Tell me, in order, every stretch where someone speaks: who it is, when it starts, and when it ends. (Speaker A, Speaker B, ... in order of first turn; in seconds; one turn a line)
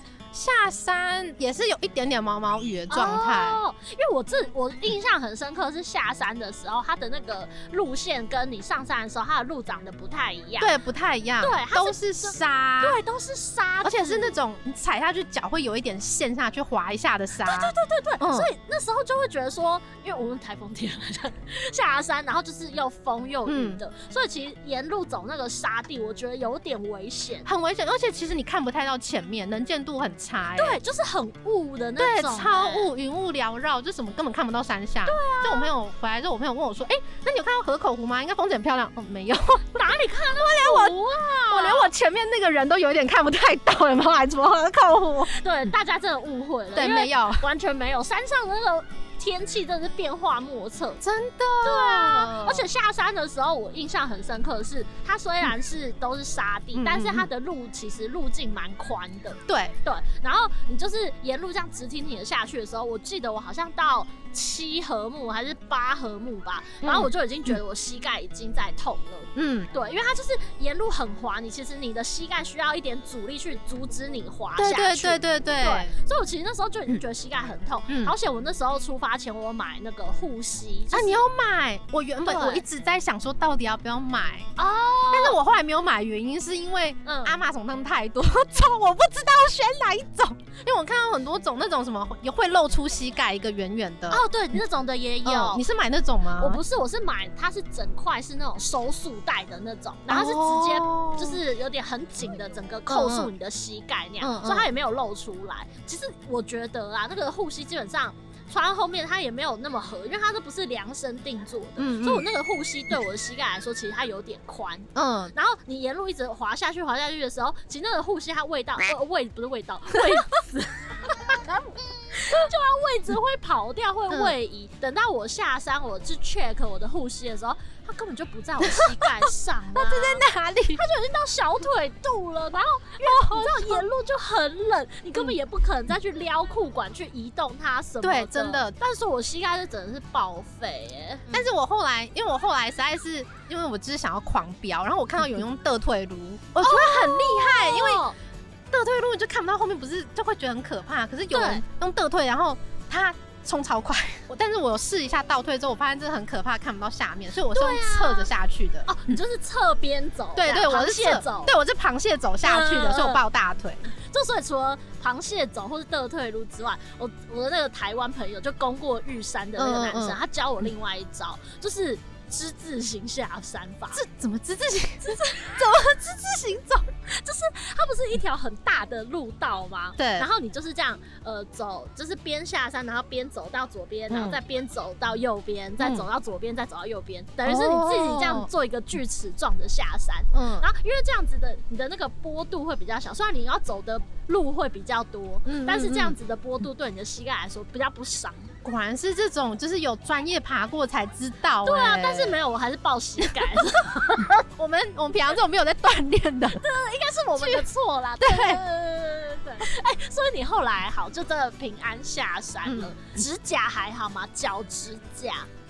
Speaker A: 0.3-3.6
Speaker B: 2.9-10.7
Speaker A: 10.6-13.0
Speaker B: 11.4-14.4
Speaker A: 13.8-18.5
Speaker B: 17.4-27.5
Speaker A: 23.5-23.8
Speaker A: 27.5-30.8
Speaker B: 30.6-32.9
Speaker A: 32.0-45.3
Speaker B: 35.1-35.7
Speaker B: 39.8-41.9
Speaker B: 45.3-51.0
Speaker A: 46.8-47.5
Speaker A: 51.0-52.7
Speaker B: 51.6-81.2
Speaker A: 56.8-57.3
Speaker A: 59.5-59.8
Speaker A: 66.8-67.1
Speaker A: 69.3-69.7
Speaker A: 74.6-75.9
Speaker A: 77.9-78.2
Speaker A: 80.9-84.5
Speaker B: 82.2-82.6
Speaker B: 84.6-85.4
Speaker A: 85.1-94.2
Speaker B: 87.0-87.4
Speaker B: 94.1-95.6
Speaker A: 95.2-96.6
Speaker B: 96.4-130.2
Speaker A: 100.1-101.4
Speaker A: 102.9-103.3
Speaker A: 104.2-104.7
Speaker A: 111.8-112.3
Speaker A: 115.0-115.3
Speaker A: 128.6-129.1
Speaker A: 129.7-130.8
Speaker B: 130.7-141.4
Speaker A: 133.0-133.9
Speaker A: 138.0-138.8
Speaker A: 141.3-148.0
Speaker B: 146.6-148.2
Speaker A: 148.7-159.0
Speaker B: 151.3-151.6
Speaker B: 157.5-158.3
Speaker B: 158.9-161.5
Speaker A: 160.4-163.9
Speaker B: 162.4-163.2
Speaker B: 164.0-174.0
Speaker A: 169.6-170.2
Speaker A: 173.9-176.9
Speaker B: 175.0-175.6
Speaker B: 177.1-198.5
Speaker A: 180.0-180.3
Speaker A: 184.1-184.4
Speaker A: 185.8-186.1
Speaker A: 187.4-188.5
Speaker A: 190.3-190.7
Speaker A: 195.5-196.2
Speaker A: 198.6-202.4
Speaker B: 201.6-204.4
Speaker A: 204.4-206.6
Speaker B: 206.6-215.5
Speaker A: 207.4-207.7
Speaker A: 208.2-208.6
Speaker A: 212.7-212.9